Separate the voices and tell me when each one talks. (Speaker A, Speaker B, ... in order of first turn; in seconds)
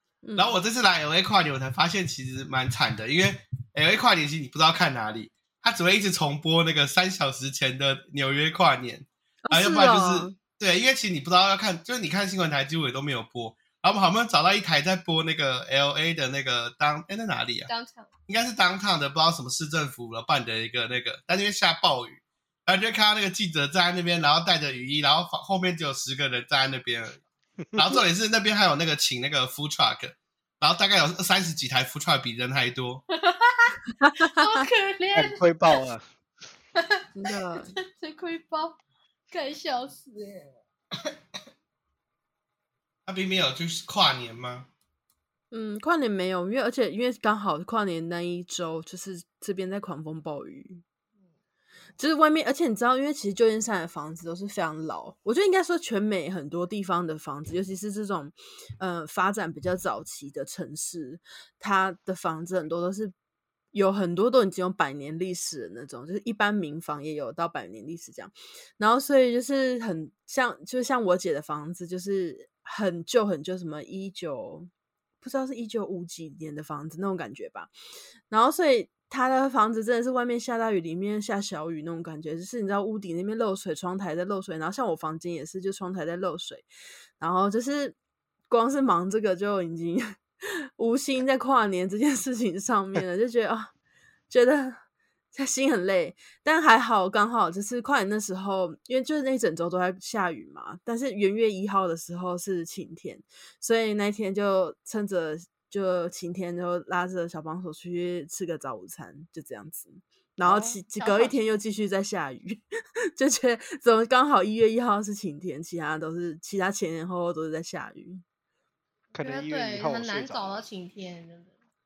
Speaker A: 0.2-0.5, 9.5-10.4, 34.0-34.5, 37.2-37.8, 45.5-50.8, 52.0-63.1, 63.7-74.7, 75.2-77.7, 78.3-86.7, 87.2-88.0, 88.5-93.7, 94.3-94.8, 95.3-112.6, 113.2-118.2
Speaker B: 0.4-17.7, 18.3-27.2, 27.8-33.0, 43.1-44.7
Speaker C: 17.7-18.1, 33.1-35.8, 36.8-37.0, 37.8-38.8, 39.3-41.1, 111.0-111.4, 119.2-121.5
Speaker D: 35.1-36.0, 110.5-110.8, 119.2-120.7